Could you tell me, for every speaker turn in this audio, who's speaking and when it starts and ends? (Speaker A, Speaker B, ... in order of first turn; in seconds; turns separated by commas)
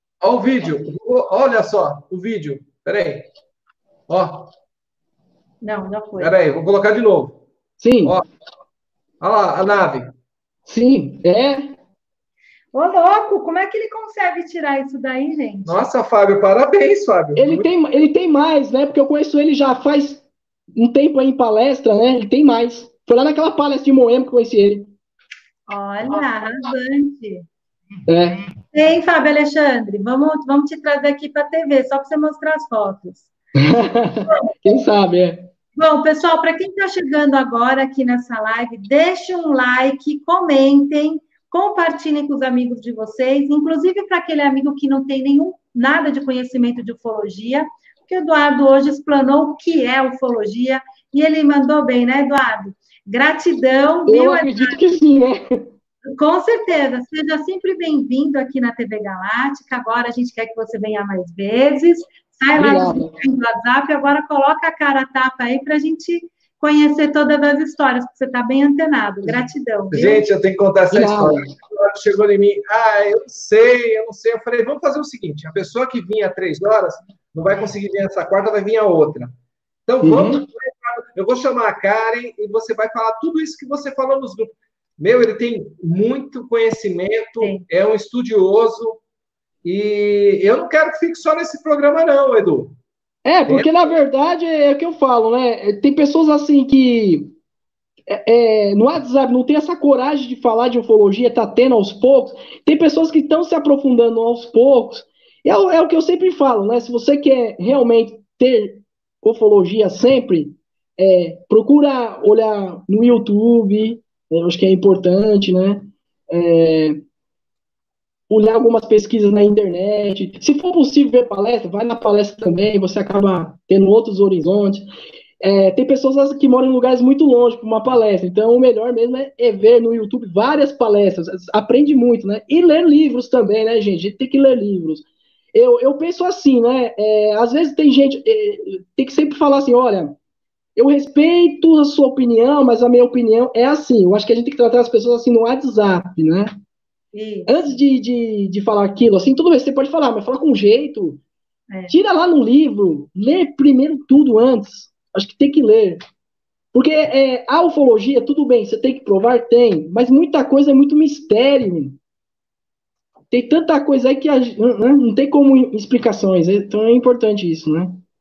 Speaker A: 0.2-3.3, Speaker A: 4.1-4.5, Speaker B: 5.6-6.3, Speaker A: 6.2-7.4, Speaker C: 7.8-8.2, Speaker A: 9.2-10.1, Speaker C: 10.7-11.7, Speaker B: 12.7-15.8, Speaker A: 15.7-17.7, Speaker C: 17.4-24.9, Speaker B: 25.7-27.4, Speaker C: 28.1-28.4, Speaker B: 28.7-33.3, Speaker C: 33.5-35.5, Speaker B: 35.8-54.8, Speaker C: 54.1-55.6, Speaker B: 56.0-70.2, Speaker C: 62.5-63.1, Speaker A: 69.9-79.3, Speaker C: 70.9-71.5, Speaker A: 79.9-89.0, Speaker C: 80.0-80.4, Speaker A: 89.6-92.7, Speaker C: 93.2-97.3, Speaker A: 93.5-93.9, Speaker C: 98.1-117.0, Speaker C: 118.3-124.9, Speaker C: 125.4-140.2, Speaker C: 140.8-146.5, Speaker B: 147.1-147.8, Speaker C: 147.5-151.2, Speaker C: 151.9-156.0, Speaker C: 156.7-162.0, Speaker C: 163.3-168.0